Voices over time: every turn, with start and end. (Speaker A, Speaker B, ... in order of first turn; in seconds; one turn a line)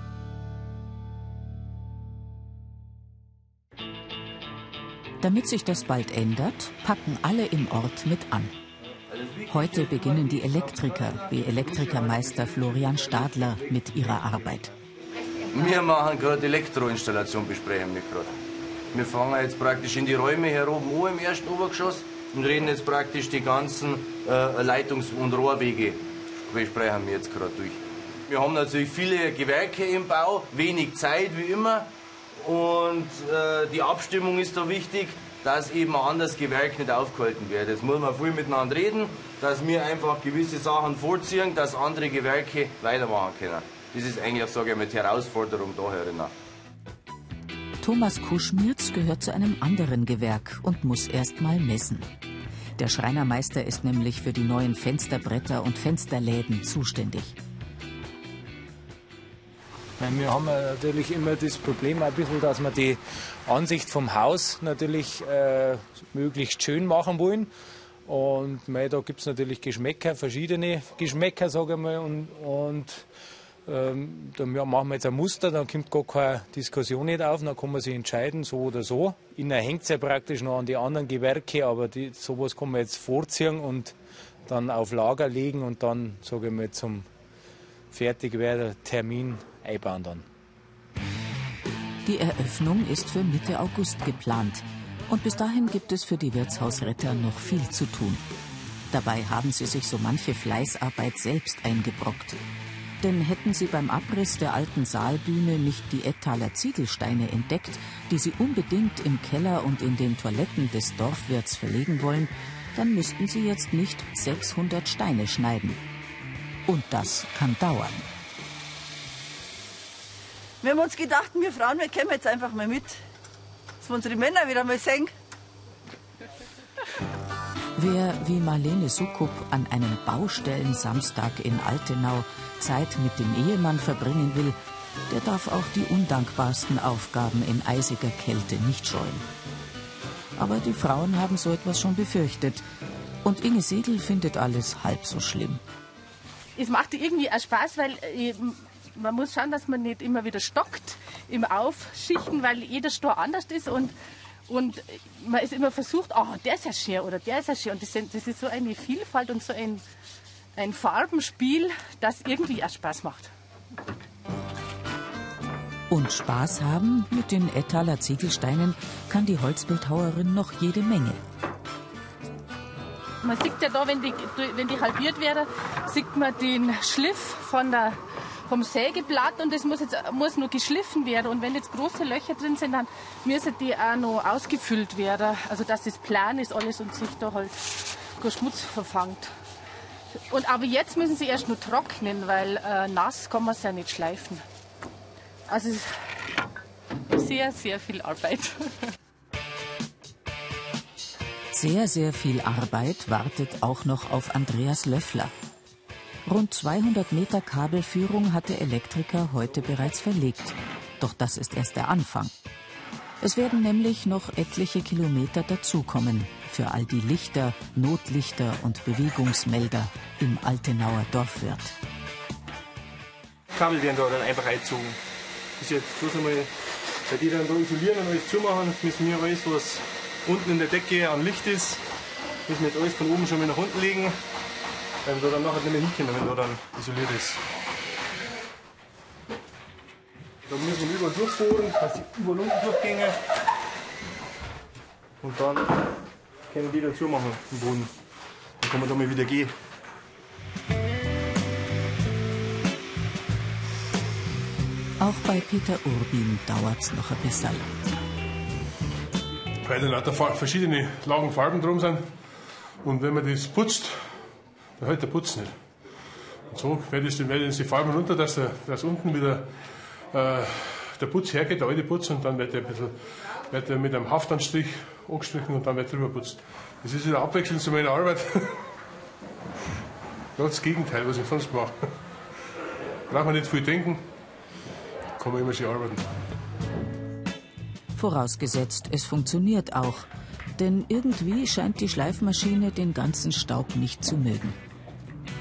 Speaker A: 5.2-8.5
Speaker A: 9.5-14.7
Speaker B: 15.5-18.3
Speaker B: 18.9-46.3
Speaker A: 47.8-52.1
Speaker A: 52.8-57.4
Speaker C: 60.0-67.5
Speaker C: 68.1-73.1
Speaker C: 73.7-84.0
Speaker C: 84.5-87.1
Speaker C: 87.9-90.2
Speaker A: 92.0-98.2
Speaker A: 98.9-102.4
Speaker A: 103.0-115.8
Speaker A: 116.7-118.1
Speaker D: 120.6-123.0
Speaker D: 123.8-125.1
Speaker A: 127.8-134.6
Speaker A: 135.1-139.2
Speaker A: 140.4-142.6
Speaker A: 143.2-145.6
Speaker E: 146.6-153.9
Speaker E: 154.5-159.8
Speaker E: 160.6-163.3
Speaker A: 165.9-171.2
Speaker E: 173.2-189.3
Speaker E: 190.3-194.4
Speaker E: 195.5-195.9
Speaker E: 197.1-198.9
Speaker A: 201.5-205.3
Speaker A: 206.3-212.3
Speaker A: 213.2-221.8
Speaker F: 223.6-225.0
Speaker F: 225.6-226.5
Speaker F: 227.1-231.8
Speaker F: 232.5-234.2
Speaker F: 235.0-237.4
Speaker F: 240.5-243.2
Speaker F: 245.2-245.7
Speaker F: 246.5-247.9
Speaker F: 248.6-249.5
Speaker A: 255.0-257.7
Speaker G: 259.6-262.0
Speaker G: 262.8-264.0
Speaker G: 264.8-265.5
Speaker G: 266.5-269.5
Speaker G: 270.1-272.9
Speaker G: 273.5-278.5
Speaker G: 280.4-281.7
Speaker G: 283.1-284.0
Speaker G: 285.2-286.0
Speaker A: 287.9-294.6